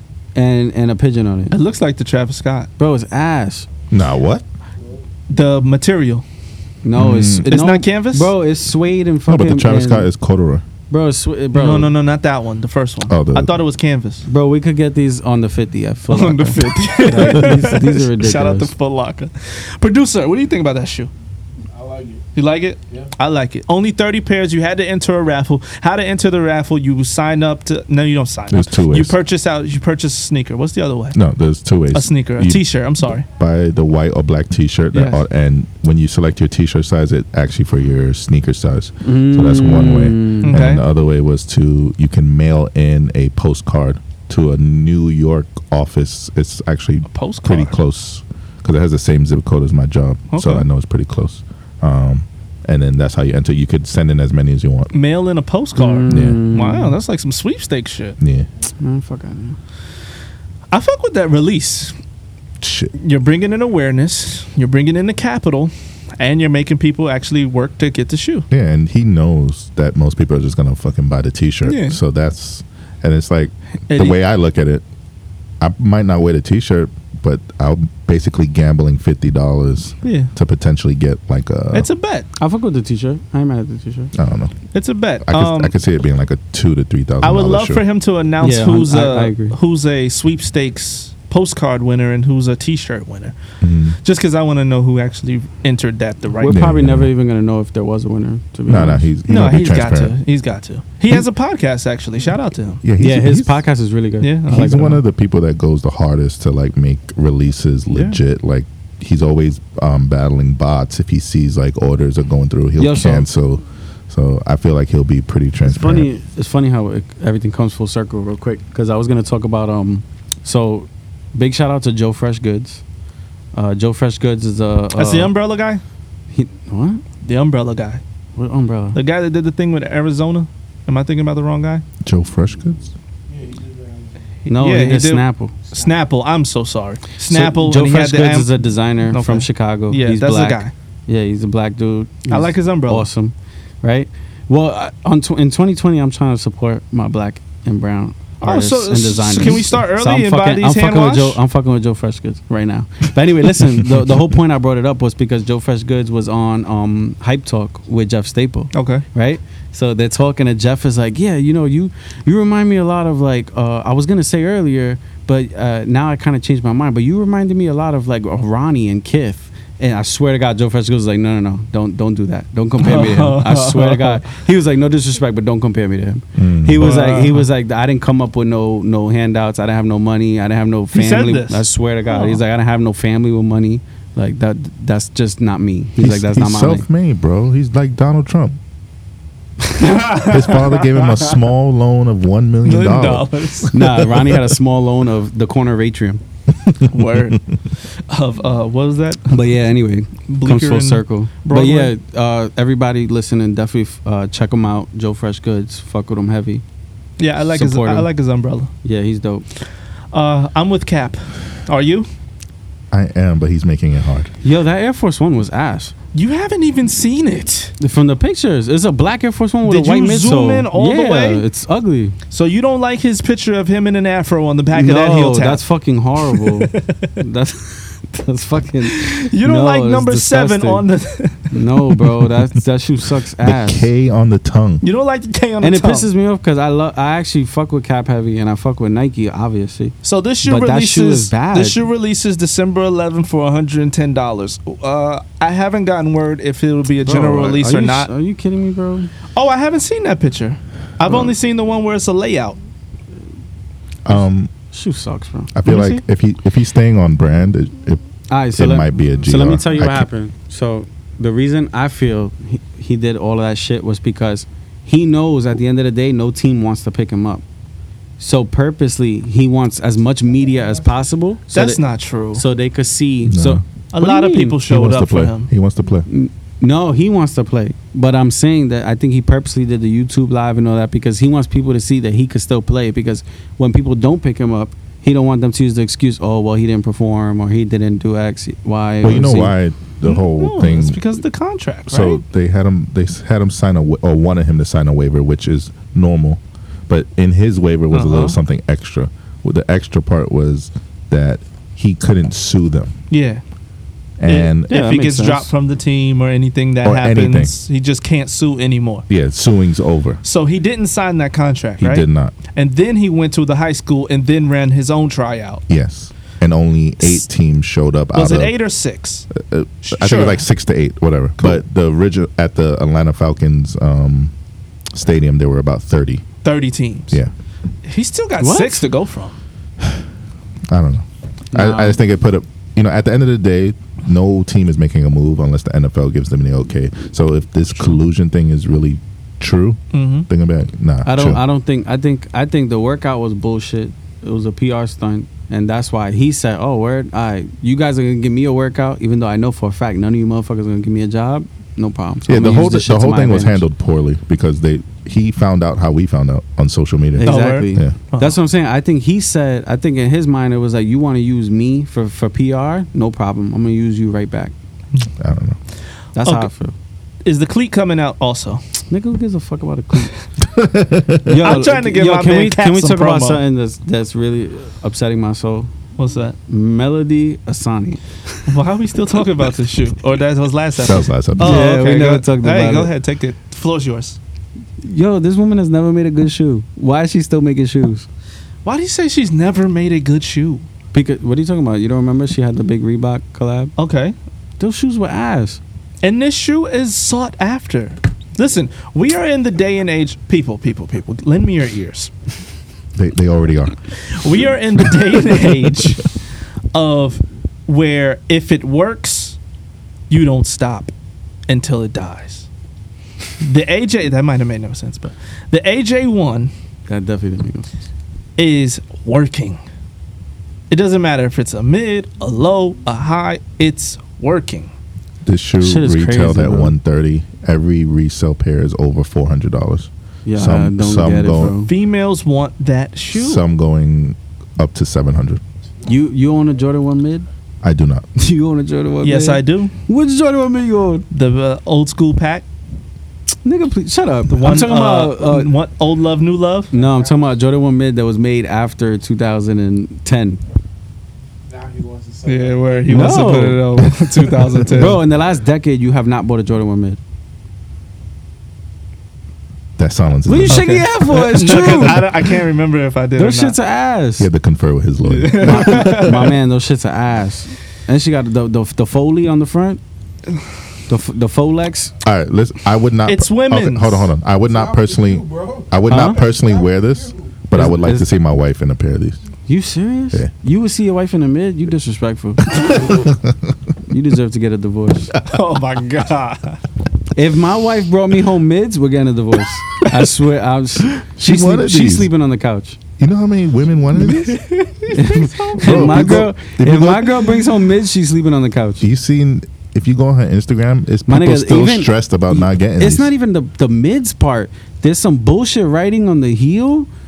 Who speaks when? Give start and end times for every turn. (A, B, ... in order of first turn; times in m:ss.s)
0:00.3-0:01.5 A
0:01.5-0:02.7 B
0:02.8-0:03.7 A
0:03.9-0:04.4 C
0:05.3-0:06.2 B
0:06.8-0:10.1 A
0:06.9-0:07.5 C
0:07.4-0:08.3 B
0:09.3-0:10.6 C
0:10.9-0:11.9 A
0:11.5-0:14.2 B
0:13.1-0:13.5 C
0:14.2-0:18.7 A
0:16.1-0:21.1 B
0:21.8-0:22.2 D
0:22.3-0:31.2 B
0:28.5-0:29.2 C
0:31.1-0:32.6 C
0:31.9-0:33.2 B
0:33.3-0:54.9 C
0:34.9-0:35.2 B
0:39.0-0:40.6 A
0:40.4-0:40.8 B
0:47.1-0:47.8 B
0:50.3-0:50.6 B
0:54.9-0:58.2 B
0:55.8-0:57.0 A
0:56.1-0:56.4 C
0:58.2-0:58.5 C
0:58.8-0:59.6 A
1:00.7-1:01.9 B
1:02.6-1:02.9 C
1:03.0-1:08.5 B
1:08.5-1:14.8 C
1:11.6-1:12.0 B
1:13.9-1:14.2 B
1:15.6-1:21.9 C
1:20.0-1:20.3 B
1:21.7-1:22.3 B
1:22.4-1:24.1 A
1:24.1-1:24.6 C
1:24.7-1:25.7 B
1:25.2-1:27.8 C
1:27.2-1:33.4 B
1:28.4-1:29.6 A
1:33.6-1:34.0 C
1:34.0-1:36.6 B
1:36.4-1:39.1 A
1:36.5-1:37.1 C
1:38.7-1:40.2 C
1:39.3-1:42.8 B
1:42.8-1:43.6 C
1:43.0-1:45.0 A
1:44.2-1:44.8 B
1:44.5-1:56.1 C
1:47.9-1:48.2 B
1:52.8-1:53.3 A
1:55.6-2:02.8 A
2:03.5-2:05.3 A
2:05.0-2:05.8 B
2:06.3-2:07.0 A
2:07.2-2:08.0 B
2:08.4-2:09.0 A
2:08.9-2:11.8 B
2:12.0-2:12.9 C
2:13.3-2:14.1 D
2:14.5-2:15.5 A
2:14.5-2:20.7 B
2:17.2-3:06.8 A
2:22.3-2:23.1 B
2:28.4-2:31.4 B
2:38.7-2:39.0 B
2:52.8-2:54.2 B
2:56.4-2:56.8 C
2:56.8-2:57.5 B
3:00.9-3:02.4 B
3:06.0-3:08.6 C
3:09.8-3:11.4 B
3:10.2-3:14.0 C
3:12.6-3:14.0 B
3:13.7-3:16.2 A
3:16.9-3:19.4 B
3:19.3-3:26.6 A
3:20.3-3:21.9 B
3:27.2-3:28.7 B
3:27.5-3:28.1 A
3:28.8-3:29.4 A
3:30.1-3:32.1 B
3:32.9-3:34.3 C
3:34.4-3:35.9 A
3:36.1-3:37.8 B
3:37.8-3:42.2 A
3:39.6-3:41.4 B
3:42.3-3:45.6 B
3:44.7-3:50.8 A
3:46.3-3:47.1 B
3:48.9-3:51.5 B
3:51.5-3:53.9 A
3:53.4-3:54.8 C
3:54.8-3:56.1 B
3:55.6-4:01.8 A
4:00.0-4:08.1 B
4:07.0-4:09.1 A
4:09.3-4:12.6 B
4:14.0-4:14.5 C
4:14.7-4:15.9 A
4:15.5-4:18.0 C
4:15.6-4:16.0 B
4:18.3-4:27.4 A
4:18.5-4:20.1 C
4:28.2-4:31.8 A
4:31.5-4:32.4 B
4:32.3-4:34.6 A
4:33.3-4:33.6 C
4:33.9-4:35.5 B
4:34.6-4:36.1 C
4:36.1-4:49.5 A
4:49.0-4:51.0 C
4:50.0-4:52.2 B
4:51.9-5:02.9 C
4:57.9-4:58.4 B
5:03.1-5:03.4 B
5:04.2-5:04.7 C
5:04.2-5:09.0 B
5:04.7-5:05.5 A
5:06.8-5:07.5 C
5:09.1-5:10.2 C
5:10.2-5:15.6 B
5:11.8-5:12.3 C
5:15.7-5:18.5 C
5:18.1-5:19.3 B
5:19.3-5:24.3 C
5:19.8-5:20.4 B
5:24.9-5:26.2 C
5:26.4-5:27.2 B
5:27.8-5:29.4 B
5:28.4-5:28.8 A
5:30.7-5:41.4 C
5:31.5-5:32.0 A
5:39.9-5:40.3 B
5:41.0-5:53.6 A
5:52.3-5:57.9 C
5:57.2-6:04.5 A
5:57.2-5:58.4 B
6:05.2-6:05.6 C
6:06.1-6:06.7 A
6:06.2-6:06.5 B
6:07.2-6:08.6 B
6:08.9-6:10.1 A
6:10.4-6:11.4 C
6:11.2-6:15.7 A
6:11.4-6:13.4 B
6:16.0-6:16.4 B
6:16.5-6:18.0 A
6:18.5-6:24.2 B
6:20.8-6:21.6 C
6:21.4-6:22.9 A
6:24.8-6:28.1 A
6:28.6-6:30.6 B
6:30.9-6:33.7 A
6:33.8-6:34.1 B
6:34.6-6:35.6 A
6:36.0-6:42.1 B
6:42.9-6:44.0 C
6:44.0-6:46.2 B
6:46.7-6:49.4 B
6:50.1-6:50.9 B
6:51.5-6:52.5 B
6:53.4-6:56.5 B
6:56.9-6:57.7 A
6:58.4-6:59.6 B
7:00.7-7:04.7 B
7:05.2-7:11.6 C
7:05.6-7:06.7 A
7:10.2-7:11.7 A
7:11.6-7:13.4 B
7:13.1-7:15.4 C
7:15.8-7:17.3 A
7:17.6-7:18.1 C
7:18.2-7:21.0 A
7:19.0-7:19.7 B
7:21.1-7:22.4 B
7:23.4-7:25.5 A
7:24.3-7:26.7 B
7:26.7-7:30.4 A
7:26.7-7:27.2 D
7:31.5-7:33.3 D
7:32.2-7:35.0 B
7:32.9-7:34.1 A
7:34.6-7:37.0 A
7:39.8-7:40.7 C
7:40.2-7:42.1 A
7:40.5-7:43.6 B
7:43.2-7:44.3 A
7:44.2-7:46.2 C
7:45.0-7:46.3 B
7:45.4-7:49.8 A
7:50.9-7:51.9 A
7:52.0-7:59.2 C
7:53.0-7:54.1 B
7:54.5-7:55.7 D
7:55.9-7:56.2 A
7:57.5-7:58.1 A
7:59.5-8:02.9 A
8:02.8-8:03.3 C
8:03.9-8:05.1 A
8:05.2-8:06.6 B
8:07.1-8:12.8 A
8:11.2-8:12.1 C
8:13.0-8:14.4 C
8:14.1-8:16.2 B
8:14.9-8:18.8 A
8:15.6-8:17.3 C
8:18.8-8:23.1 C
8:21.1-8:26.9 A